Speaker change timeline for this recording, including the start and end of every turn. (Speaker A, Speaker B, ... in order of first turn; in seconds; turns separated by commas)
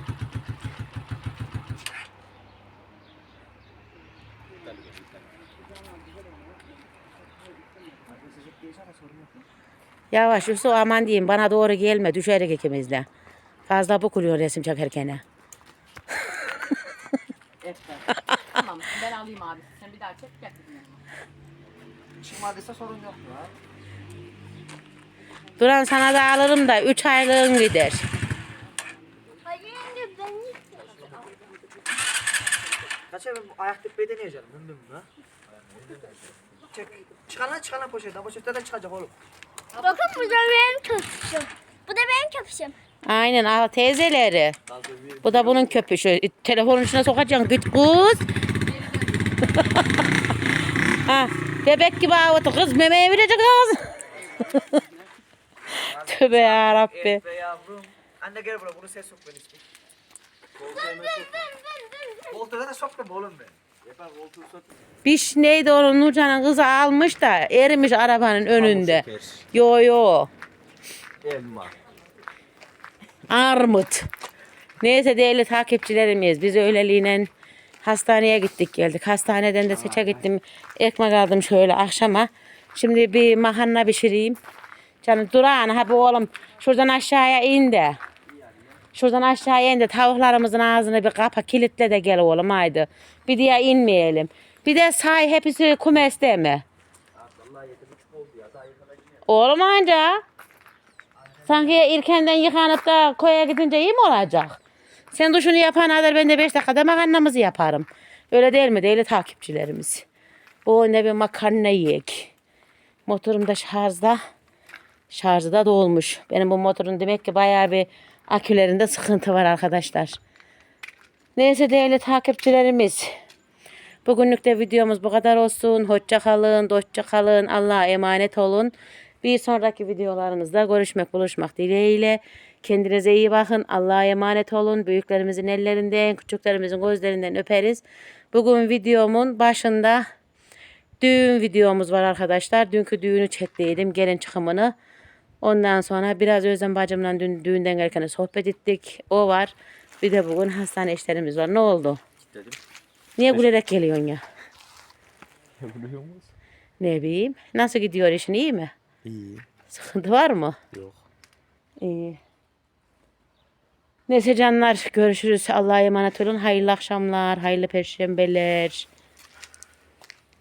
Speaker A: 4.6-5.2, Speaker A: 8.1-9.4, Speaker B: 10.1-13.1, Speaker B: 13.7-15.2, Speaker C: 17.6-21.0, Speaker A: 22.2-23.6, Speaker B: 25.6-28.0, Speaker D: 29.4-31.0, Speaker A: 30.8-31.3, Speaker A: 33.1-39.1, Speaker C: 39.7-40.4, Speaker D: 39.8-42.7, Speaker B: 43.1-44.6, Speaker A: 44.7-45.7, Speaker B: 45.2-48.2, Speaker C: 48.6-49.6, Speaker B: 51.1-53.9, Speaker A: 55.8-59.6, Speaker B: 56.0-57.2, Speaker A: 60.6-61.5, Speaker A: 62.3-64.7, Speaker B: 65.0-70.3, Speaker E: 68.6-69.4, Speaker A: 71.2-71.7, Speaker B: 73.3-74.1, Speaker B: 74.8-77.3, Speaker B: 77.8-84.4, Speaker B: 85.0-88.0, Speaker A: 88.3-88.7, Speaker B: 88.9-96.6, Speaker A: 97.1-99.2, Speaker B: 99.3-100.2, Speaker B: 101.5-104.6, Speaker B: 105.1-110.0, Speaker B: 110.6-112.3, Speaker B: 113.1-114.2, Speaker B: 115.1-120.2, Speaker B: 121.4-123.1, Speaker B: 124.1-140.1, Speaker B: 141.0-144.7, Speaker B: 145.4-152.0, Speaker E: 152.2-152.6, Speaker B: 153.2-154.2, Speaker E: 155.6-156.3, Speaker B: 156.8-158.7, Speaker E: 159.0-159.4, Speaker B: 159.7-160.6, Speaker E: 160.7-161.0, Speaker B: 161.8-162.2, Speaker B: 164.1-168.9